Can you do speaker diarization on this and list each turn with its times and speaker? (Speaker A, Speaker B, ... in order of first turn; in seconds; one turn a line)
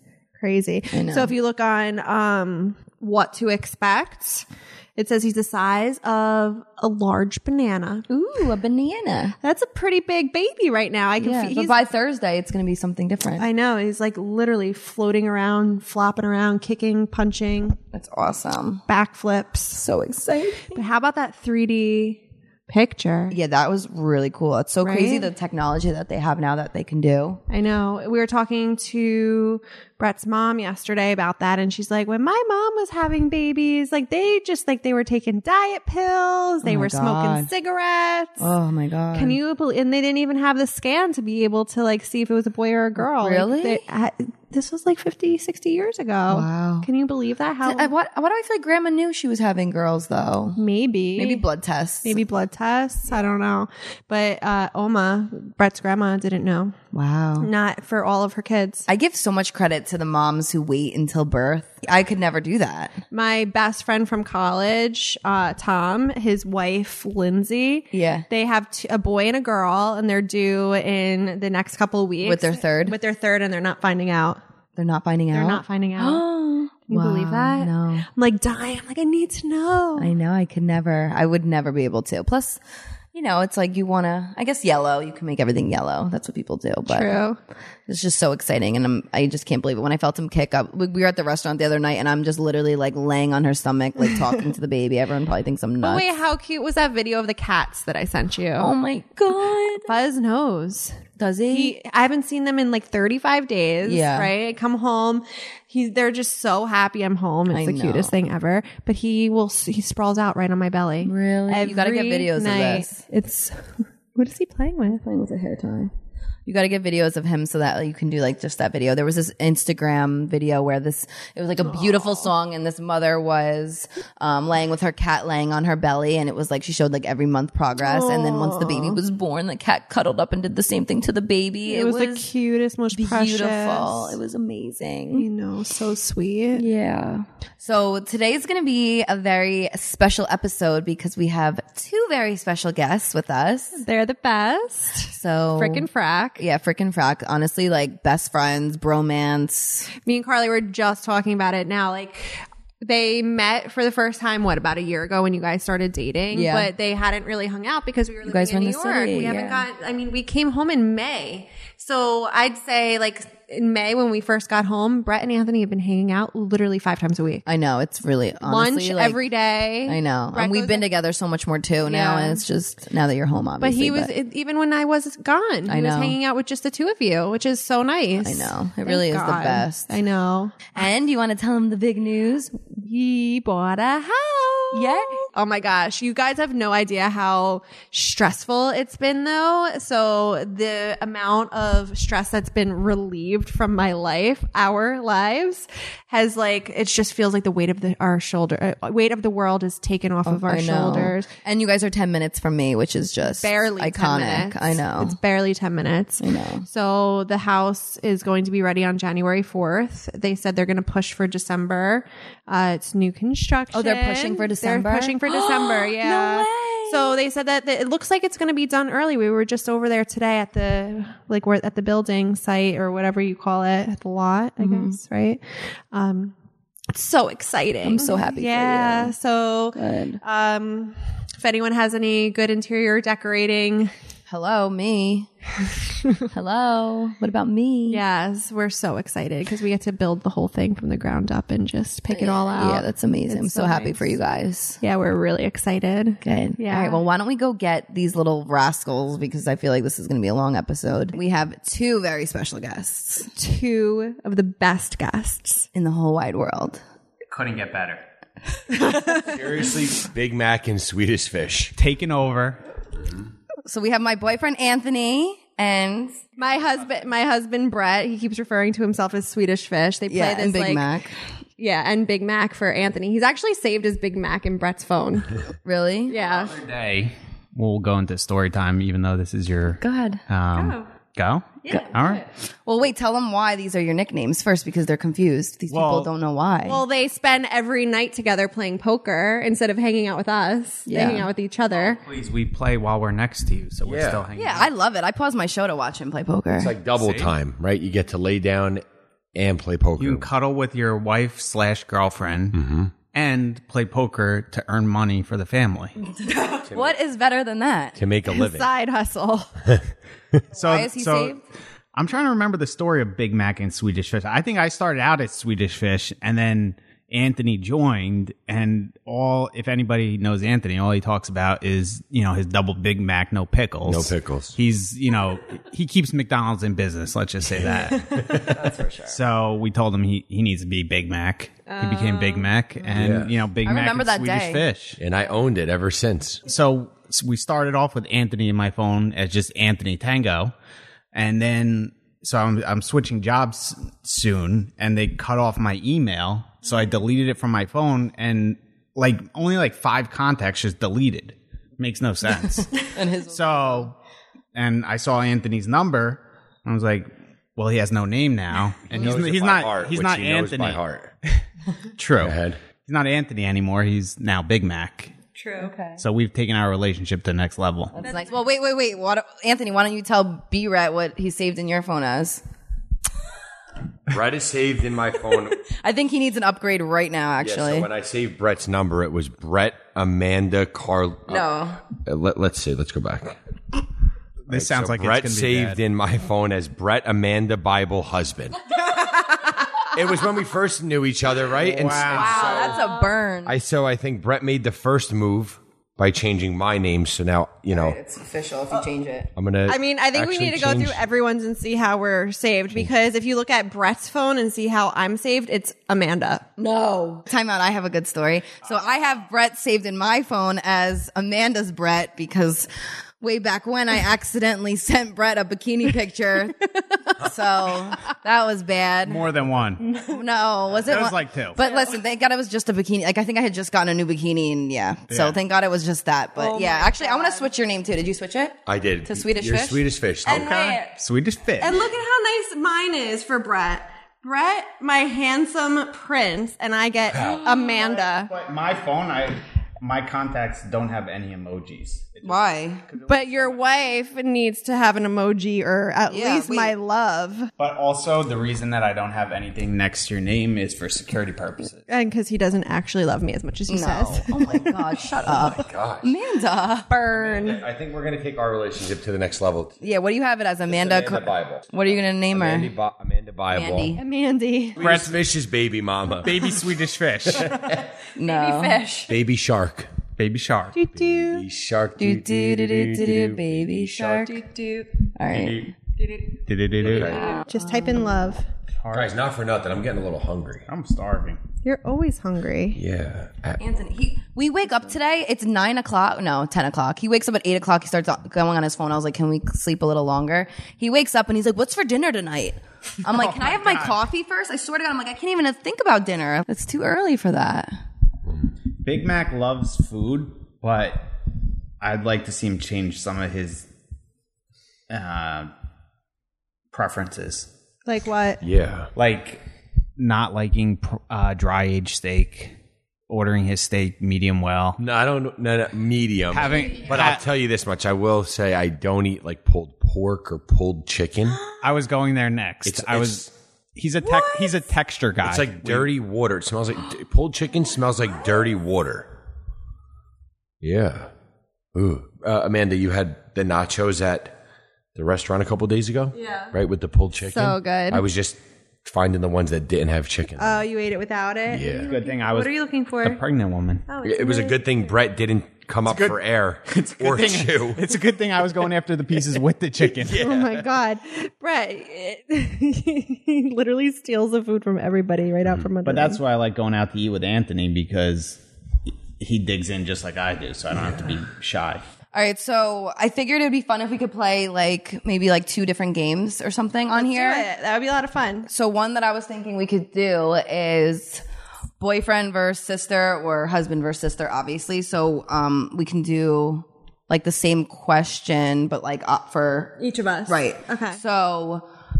Speaker A: 0.4-8.1
Speaker B: 0.9-1.4
Speaker B: 8.1-9.4
Speaker A: 9.4-11.8
Speaker B: 11.2-13.5
Speaker A: 13.4-17.8
Speaker B: 17.9-18.8
Speaker A: 18.9-19.8
Speaker B: 19.7-20.9
Speaker A: 20.7-23.4
Speaker B: 23.3-27.4
Speaker A: 24.8-25.3
Speaker A: 27.5-38.5
Speaker B: 36.6-37.5
Speaker B: 38.4-39.4
Speaker A: 39.1-47.9
Speaker B: 43.0-43.8
Speaker B: 46.3-46.9
Speaker B: 47.6-50.6
Speaker A: 50.5-51.5
Speaker B: 51.1-52.2
Speaker A: 52.0-56.8
Speaker B: 56.9-57.5
Speaker A: 57.4-58.9
Speaker B: 58.9-63.0
Speaker A: 63.1-74.4
Speaker B: 67.9-68.3
Speaker B: 72.2-73.0
Speaker B: 74.8-78.1
Speaker A: 75.3-76.2
Speaker A: 76.9-80.1
Speaker B: 80.0-82.6
Speaker B: 83.1-87.2
Speaker A: 86.9-87.4
Speaker B: 87.9-96.1
Speaker A: 95.8-98.7
Speaker B: 98.6-99.9
Speaker A: 99.9-115.0
Speaker B: 101.2-101.8
Speaker B: 103.8-104.3
Speaker B: 107.5-108.2
Speaker B: 111.0-113.0
Speaker B: 114.9-115.9
Speaker B: 116.5-132.3
Speaker A: 121.7-122.0
Speaker A: 127.8-129.0
Speaker A: 131.7-134.2
Speaker B: 132.9-135.3
Speaker A: 135.1-136.7
Speaker B: 136.5-143.8
Speaker A: 143.8-146.4
Speaker B: 145.1-145.9
Speaker B: 146.4-149.9
Speaker A: 150.1-167.4
Speaker B: 156.3-156.7
Speaker B: 158.2-159.7
Speaker B: 167.5-169.2
Speaker A: 168.4-170.9
Speaker B: 169.9-174.1
Speaker A: 171.8-172.4
Speaker A: 173.6-180.7
Speaker B: 175.7-176.2
Speaker B: 178.2-180.0
Speaker B: 180.7-182.7
Speaker A: 182.8-201.3
Speaker B: 184.7-185.3
Speaker B: 200.3-205.2
Speaker A: 203.2-226.3
Speaker B: 206.2-206.7
Speaker B: 213.7-217.2
Speaker B: 224.6-225.0
Speaker A: 226.9-233.9
Speaker B: 227.8-229.1
Speaker B: 229.7-230.2
Speaker B: 234.3-235.3
Speaker B: 236.3-238.0
Speaker A: 237.9-244.2
Speaker B: 242.1-244.8
Speaker A: 244.8-247.0
Speaker B: 246.2-253.3
Speaker A: 253.4-255.7
Speaker B: 255.7-256.8
Speaker C: 257.3-258.0
Speaker A: 258.7-259.2
Speaker D: 258.9-261.7
Speaker C: 261.8-262.6
Speaker B: 263.6-266.2
Speaker A: 266.4-270.9
Speaker B: 270.1-271.2
Speaker A: 271.6-275.4
Speaker B: 275.6-276.2
Speaker A: 276.1-276.5
Speaker C: 276.1-282.2
Speaker B: 279.8-280.2
Speaker A: 280.5-280.9
Speaker B: 281.7-286.8
Speaker C: 285.7-286.1
Speaker A: 286.6-292.0
Speaker B: 290.9-291.3
Speaker C: 291.7-294.7
Speaker D: 293.9-294.3
Speaker B: 294.4-296.7
Speaker D: 296.6-300.3
Speaker C: 297.0-297.4
Speaker C: 300.0-305.9
Speaker D: 302.5-302.9
Speaker B: 306.1-308.0
Speaker D: 306.7-306.9
Speaker D: 308.0-308.7
Speaker A: 308.3-309.6
Speaker C: 310.5-311.4
Speaker B: 310.6-311.4
Speaker C: 311.9-328.1
Speaker D: 323.9-324.6
Speaker D: 327.6-328.6
Speaker B: 328.4-329.2
Speaker C: 329.1-335.0
Speaker A: 331.7-332.5
Speaker D: 333.0-333.4
Speaker B: 333.6-334.7
Speaker D: 335.0-336.4
Speaker C: 336.5-340.5
Speaker C: 341.1-353.9
Speaker B: 352.6-353.9
Speaker C: 354.6-361.4
Speaker D: 358.9-361.1
Speaker C: 362.0-365.1
Speaker D: 362.2-362.6
Speaker A: 365.4-365.8
Speaker B: 365.6-366.0
Speaker C: 366.0-367.9
Speaker B: 367.9-372.4
Speaker A: 368.0-368.3
Speaker D: 374.1-375.6
Speaker B: 375.6-377.9
Speaker D: 377.4-383.4
Speaker B: 381.3-381.8
Speaker C: 384.4-385.8
Speaker D: 384.5-388.6
Speaker A: 388.9-389.8
Speaker D: 389.9-392.8
Speaker C: 391.6-392.6
Speaker B: 392.1-393.6
Speaker A: 392.1-393.1
Speaker D: 393.4-398.0
Speaker B: 397.7-399.3
Speaker D: 399.4-401.1
Speaker A: 399.7-406.5
Speaker B: 406.6-412.7
Speaker B: 413.2-419.3
Speaker C: 419.1-419.9
Speaker B: 419.9-430.7
Speaker C: 420.8-421.6
Speaker A: 421.6-421.9
Speaker C: 425.1-425.4
Speaker A: 426.4-427.5
Speaker D: 428.7-430.5
Speaker A: 430.3-430.9
Speaker C: 430.3-431.8
Speaker A: 431.6-438.3
Speaker D: 437.1-437.5
Speaker C: 437.5-443.9
Speaker B: 442.2-442.8
Speaker A: 443.1-447.5
Speaker B: 446.1-446.7
Speaker C: 447.6-451.9
Speaker A: 451.9-454.4
Speaker B: 453.7-457.5
Speaker D: 455.2-456.1
Speaker A: 456.9-457.6
Speaker D: 457.1-459.8
Speaker B: 459.8-462.7
Speaker D: 460.7-461.7
Speaker D: 462.3-464.0
Speaker B: 463.5-464.0
Speaker A: 463.9-464.8
Speaker D: 464.8-466.7
Speaker C: 464.8-465.2
Speaker C: 466.2-467.8
Speaker D: 467.3-467.8
Speaker B: 468.1-469.1
Speaker A: 468.2-469.1
Speaker D: 469.1-469.9
Speaker C: 470.2-470.8
Speaker A: 470.8-471.4
Speaker D: 470.9-474.2
Speaker B: 472.0-474.5
Speaker A: 474.2-475.1
Speaker B: 475.1-475.8
Speaker C: 475.3-475.7
Speaker A: 476.0-476.3
Speaker C: 476.5-477.2
Speaker D: 476.8-477.3
Speaker A: 477.0-478.4
Speaker B: 477.1-478.2
Speaker C: 478.8-479.1
Speaker D: 478.9-480.7
Speaker C: 480.7-481.4
Speaker A: 481.6-482.8
Speaker D: 482.7-483.6
Speaker B: 483.6-497.8
Speaker C: 493.0-494.0
Speaker C: 498.8-501.1
Speaker C: 501.8-503.7
Speaker C: 504.9-505.5
Speaker C: 506.7-507.5
Speaker A: 507.9-508.4
Speaker D: 508.4-508.9
Speaker C: 508.9-509.4
Speaker C: 510.0-512.6
Speaker C: 513.1-514.8
Speaker D: 514.8-521.4
Speaker C: 516.3-517.2
Speaker C: 521.6-525.9
Speaker D: 522.6-523.3
Speaker A: 524.1-524.6
Speaker D: 525.2-529.1
Speaker D: 530.6-531.1
Speaker D: 531.7-534.4
Speaker D: 535.0-540.7
Speaker A: 536.1-536.5
Speaker A: 537.2-538.0
Speaker A: 540.4-543.2
Speaker D: 541.5-541.9
Speaker C: 541.9-543.9
Speaker A: 543.9-544.9
Speaker D: 544.0-547.9
Speaker C: 545.9-550.2
Speaker D: 550.0-550.8
Speaker A: 550.1-556.2
Speaker D: 555.4-555.7
Speaker C: 555.8-558.4
Speaker C: 559.2-561.8
Speaker B: 562.1-567.5
Speaker A: 567.0-568.5
Speaker B: 568.5-571.2
Speaker B: 571.8-581.7
Speaker A: 579.8-581.0